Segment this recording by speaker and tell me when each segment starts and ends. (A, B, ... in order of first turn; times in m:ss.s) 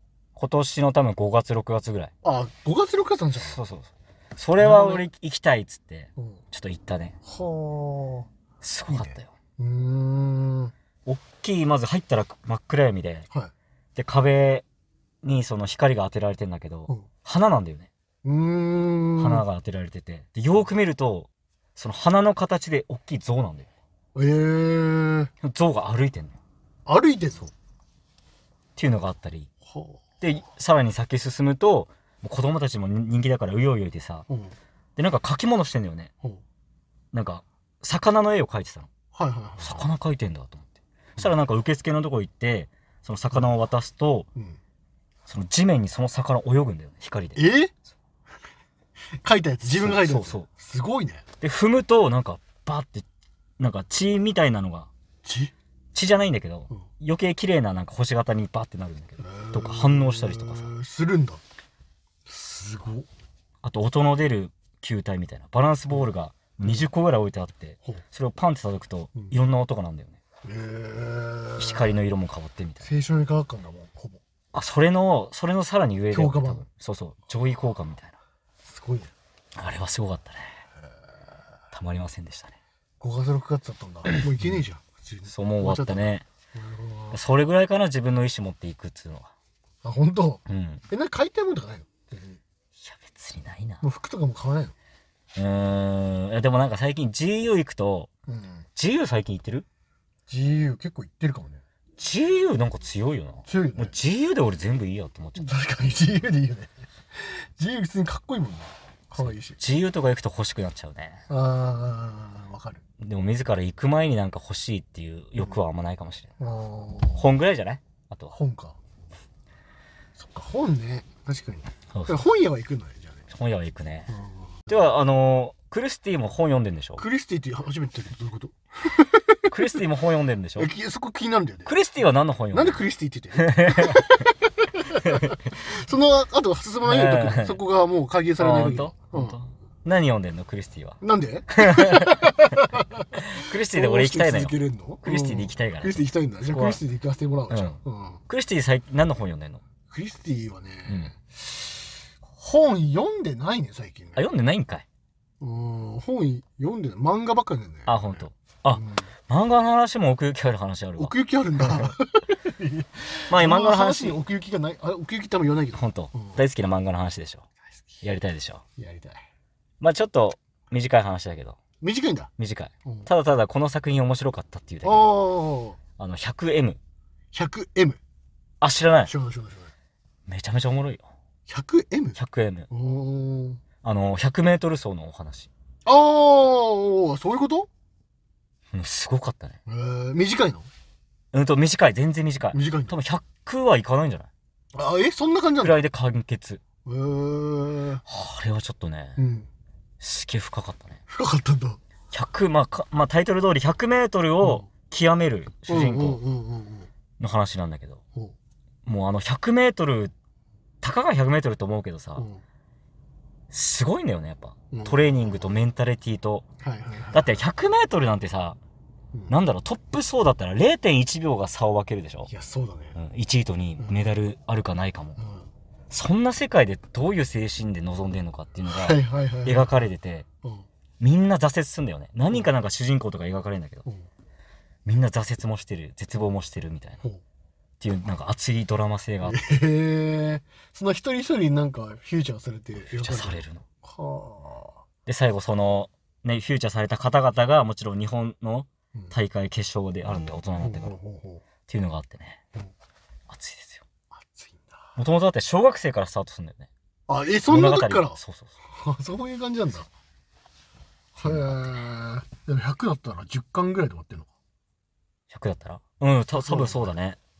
0:00.4-0:02.1 A
0:02.2-0:03.6 B
0:03.4-0:07.2 A
0:04.6-0:05.1 B
0:06.2-0:06.4 B
0:07.2-0:08.3 B
0:08.6-0:09.3 A
0:08.9-0:10.7 B
0:11.0-0:13.3 A
0:14.0-0:14.6 A
0:15.2-0:17.9 A
0:18.2-0:19.4 B
0:19.2-0:23.7 A
0:24.1-0:25.3 B
0:25.4-0:26.4 A
0:26.8-0:27.5 B
0:28.8-0:29.5 A
0:29.6-0:30.0 B
0:30.2-0:34.2 A
0:34.3-0:34.6 B
0:35.0-0:36.1 A
0:37.1-0:38.9 A
0:39.1-0:39.9 B
0:39.6-0:44.3 A
0:45.3-0:47.4 A
0:47.4-0:47.7 B
0:49.2-0:51.2 B
0:49.6-0:50.5 A
0:51.4-0:53.0 A
0:53.6-0:54.9 A
0:55.2-0:55.5 B
0:55.9-1:00.7 A
0:59.2-1:01.4 B
1:02.2-1:03.1 B
1:03.6-1:10.2 A
1:10.4-1:12.0 B
1:11.6-1:12.9 A
1:12.8-1:14.2 B
1:14.5-1:18.2 A
1:16.1-1:16.6 B
1:18.7-1:19.1 B
1:19.5-1:20.5 A
1:21.7-1:22.6 A
1:23.0-1:27.2 B
1:24.3-1:24.6 A
1:25.3-1:26.2 A
1:27.1-1:29.3 A
1:29.8-1:32.4 B
1:30.5-1:30.8 A
1:32.8-1:33.8 A
1:33.8-1:34.7 B
1:35.3-1:38.1 A
1:38.3-1:38.6 B
1:38.8-1:39.6 A
1:40.3-1:41.6 B
1:42.0-1:45.5 A
1:43.4-1:43.9 B
1:45.4-1:49.6 B
1:49.2-1:51.2 A
1:51.3-1:52.8 B
1:53.0-1:56.3 A
1:56.4-1:57.3 B
1:57.2-1:58.3 A
1:58.3-1:58.8 B
2:00.2-2:03.2 B
2:01.9-2:02.2 A
2:03.3-2:04.1 A
2:04.1-2:04.6 B
2:04.7-2:07.0 A
2:07.0-2:09.8 B
2:09.5-2:10.7 A
2:10.6-2:11.7 B
2:11.6-2:12.8 A
2:12.5-2:19.4 B
2:13.4-2:14.0 A
2:15.0-2:15.3 A
2:16.8-2:17.6 A
2:18.4-2:21.0 A
2:21.0-2:28.2 B
2:21.6-2:22.3 A
2:23.1-2:26.8 A
2:27.5-2:29.6 A
2:29.9-2:31.8 B
2:30.9-2:31.1 A
2:32.4-2:34.2 B
2:34.1-2:34.8 A
2:35.4-2:38.2 B
2:37.8-2:41.9 A
2:38.7-2:39.1 B
2:41.0-2:46.4 B
2:43.3-2:44.2 A
2:45.7-2:47.4 A
2:48.0-2:48.6 A
2:48.8-2:49.2 B
2:49.8-2:51.6 A
2:51.8-2:52.3 B
2:52.4-2:55.1 A
2:54.8-2:55.8 B
2:56.0-2:56.8 A
2:57.3-2:58.0 B
2:58.6-2:59.1 A
2:59.0-2:59.7 B
3:00.3-3:01.1 A
3:01.5-3:02.2 B
3:02.2-3:02.7 A
3:02.7-3:03.6 B
3:03.8-3:05.5 A
3:05.8-3:07.7 B
3:08.7-3:09.6 A
3:09.6-3:10.7 B
3:11.3-3:14.3 A
3:12.5-3:12.9 B
3:14.7-3:15.8 B
3:15.6-3:16.6 A
3:16.8-3:18.0 B
3:18.1-3:19.2 A
3:19.2-3:19.5 B
3:20.0-3:21.0 A
3:21.1-3:21.8 B
3:22.1-3:26.2 A
3:24.4-3:24.7 B
3:25.7-3:26.9 B
3:27.2-3:28.0 A
3:28.8-3:30.1 A
3:30.8-3:32.3 A
3:32.2-3:32.4 B
3:33.5-3:36.4 A
3:34.7-3:35.2 B
3:36.6-3:37.4 B
3:37.1-3:38.6 A
3:39.3-3:42.3 A
3:42.3-3:43.0 B
3:43.0-3:45.2 A
3:45.2-3:45.5 B
3:45.9-3:50.2 A
3:48.6-3:49.7 B
3:51.0-3:53.8 A
3:54.8-3:57.0 A
3:57.8-3:59.4 A
3:59.2-4:04.8 B
4:02.9-4:03.6 A
4:05.0-4:10.9 A
4:10.6-4:11.4 B
4:11.7-4:12.4 A
4:13.3-4:13.8 A
4:14.1-4:14.9 B
4:15.0-4:16.7 A
4:17.1-4:18.2 B
4:17.5-4:18.5 A
4:18.7-4:19.9 B
4:21.2-4:24.3 B
4:21.2-4:21.7 A
4:25.3-4:27.2 A
4:26.3-4:26.9 B